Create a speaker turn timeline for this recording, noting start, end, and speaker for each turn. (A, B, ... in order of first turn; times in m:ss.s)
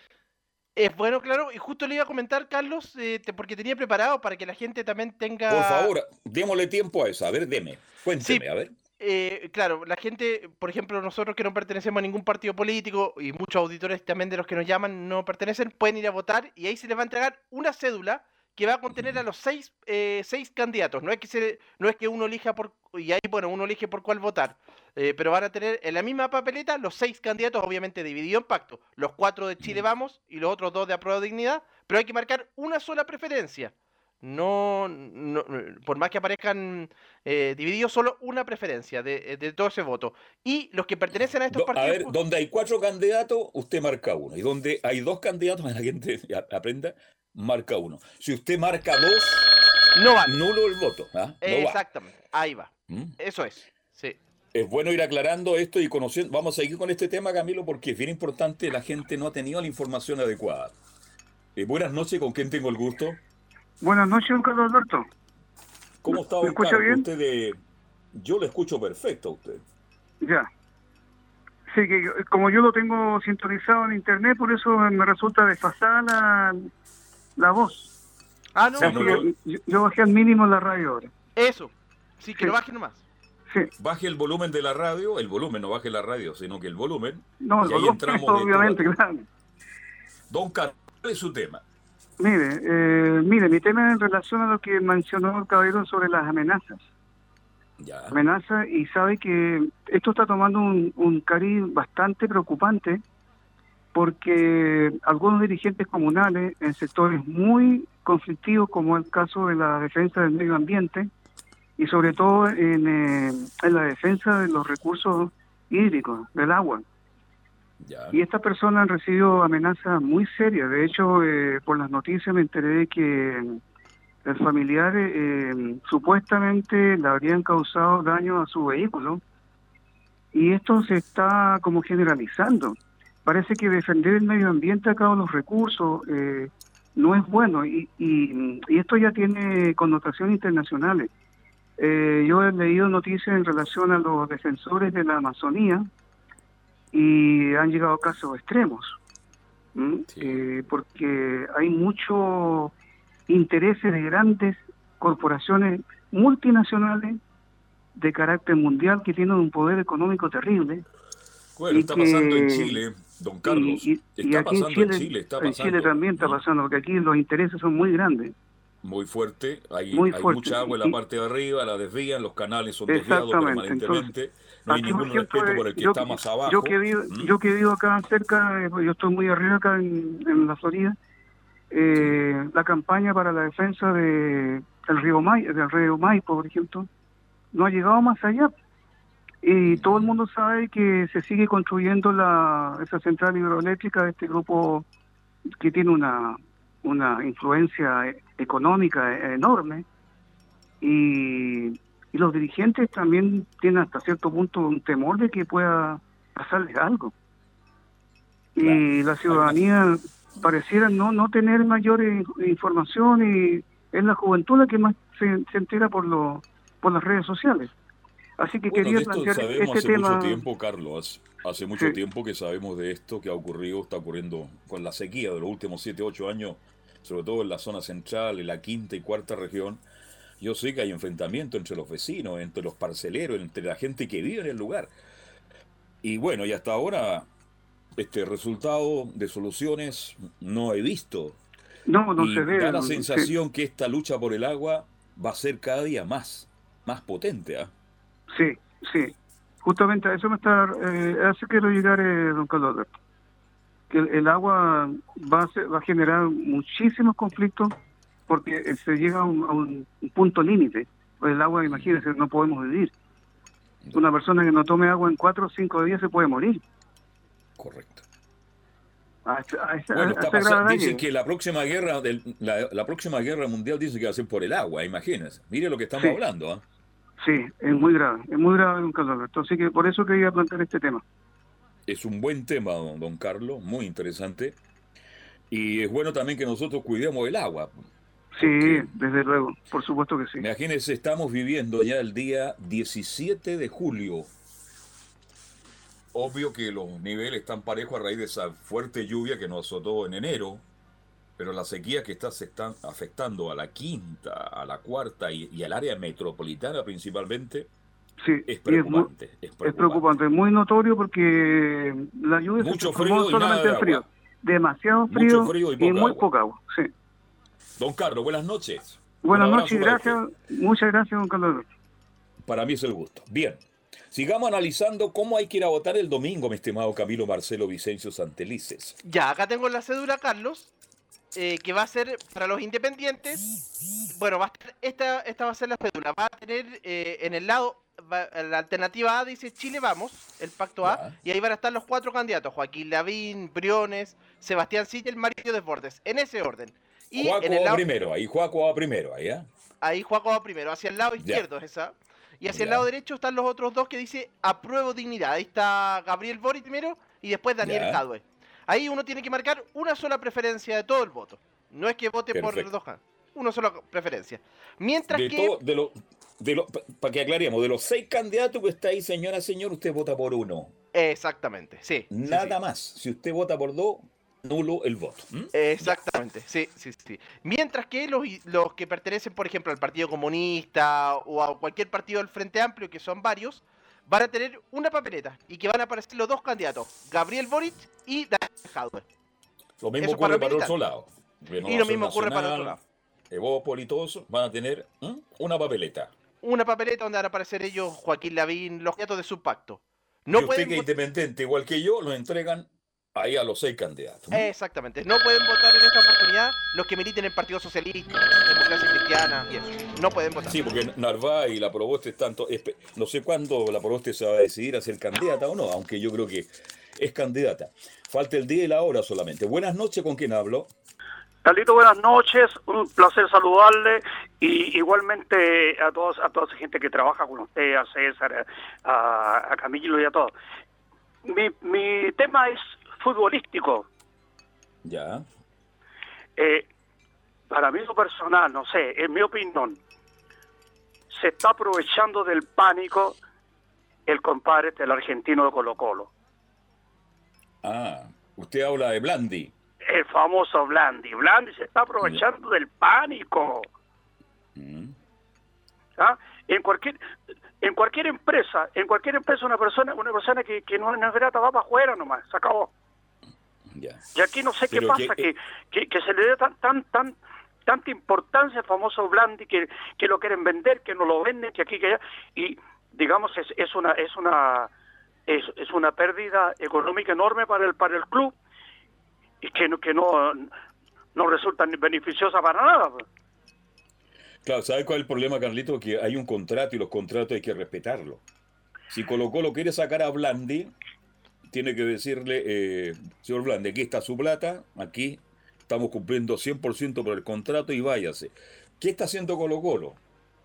0:00.8-0:05.9 A
0:05.5-0:08.8 B
0:09.0-0:42.1 A
0:18.9-0:19.2 B
0:41.5-0:49.5 B
0:50.0-0:50.4 A
0:50.2-0:51.8 B
0:51.4-0:54.2 A
0:52.9-0:53.1 B
0:54.5-1:00.7 B
1:01.6-1:03.2 B
1:03.8-1:05.1 C
1:06.0-1:07.6 B
1:06.1-1:07.0 C
1:08.1-1:09.6 B
1:10.2-1:10.5 C
1:11.7-1:16.7 C
1:17.4-1:17.9 C
1:18.6-1:19.2 A
1:18.8-1:19.3 B
1:18.8-1:21.1 C
1:21.4-1:23.0 A
1:23.8-1:28.9 B
1:27.4-1:29.2 C
1:30.3-1:31.6 B
1:32.2-1:36.8 C
1:37.8-1:38.2 B
1:38.1-1:43.0 C
1:43.9-1:51.1 C
1:51.8-1:56.8 C
1:57.8-1:58.2 B
1:58.1-2:03.6 C
2:04.3-2:09.2 C
2:10.3-2:21.1 C
2:21.8-2:25.9 C
2:26.9-2:29.0 C
2:29.8-2:32.7 C
2:30.1-2:30.4 B
2:33.3-2:37.2 C
2:38.0-2:40.8 C
2:41.6-2:46.4 B
2:41.7-2:42.8 C
2:43.5-2:48.3 C
2:48.8-2:57.4 B
2:49.9-2:51.0 C
2:52.9-2:54.1 C
2:54.7-3:01.0 C
3:01.7-3:06.9 C
3:07.5-3:08.5 C
3:09.4-3:14.9 C
3:09.7-3:10.1 B
3:15.6-3:19.8 C
3:20.8-3:27.1 C
3:28.6-3:37.7 C
3:28.6-3:29.6 B
3:38.4-3:40.4 C
3:38.7-3:49.8 B
3:50.4-3:54.9 B
3:56.0-3:57.3 B
3:58.0-4:01.4 B
4:01.9-4:03.3 C
4:02.2-4:07.7 B
4:08.3-4:09.1 C
4:09.6-4:12.9 C
4:13.9-4:17.7 C
4:18.3-4:22.9 C
4:21.7-4:22.0 B
4:23.9-4:26.6 C
4:27.6-4:28.0 B
4:29.3-4:31.0 C
4:29.9-4:36.6 B
4:37.2-4:41.0 C
4:41.9-4:44.6 B
4:45.5-4:47.7 B
4:48.4-4:50.4 C
4:48.4-4:48.9 B
4:50.4-4:54.3 B
4:56.1-5:00.6 B
5:01.4-5:07.7 B
5:08.2-5:09.1 C
5:08.5-5:10.1 B
5:09.6-5:16.9 C
5:12.6-5:14.0 B
5:15.1-5:16.3 B
5:17.8-5:20.2 B
5:19.2-5:21.6 C
5:22.4-5:29.0 B
5:29.0-5:30.7 A
5:31.3-5:33.4 A
5:34.1-5:47.8 A
5:40.8-5:41.2 B
5:47.2-5:49.5 B
5:49.8-6:05.5 A
5:51.2-5:51.4 B
5:52.5-5:52.9 B
5:57.6-5:58.0 B
6:02.3-6:02.7 B
6:05.1-6:10.7 B
6:10.9-6:12.6 A
6:12.1-6:16.0 B
6:15.5-6:29.0 A
6:29.8-6:32.8 B
6:30.0-6:30.7 A
6:31.6-6:32.8 A
6:33.3-6:36.1 B
6:36.4-6:40.9 A
6:40.3-6:44.5 B
6:44.3-6:50.6 A
6:50.4-7:00.7 B
7:01.4-7:10.3 D
7:11.2-7:13.9 D
7:14.8-7:15.2 B
7:16.4-7:16.6 D
7:17.5-7:19.8 D
7:21.1-7:23.2 D
7:24.1-7:26.1 D
7:27.6-7:29.5 B
7:29.9-7:33.7 D
7:34.6-7:34.9 B
7:36.0-7:37.0 D
7:37.6-7:42.7 D
7:43.7-7:44.0 B
7:44.2-7:54.7 D
7:44.7-7:45.3 B
7:55.3-7:58.3 D
7:59.4-8:00.5 D
8:01.2-8:03.0 D
8:04.4-8:08.2 B
8:08.9-8:10.7 B
8:11.5-8:20.0 B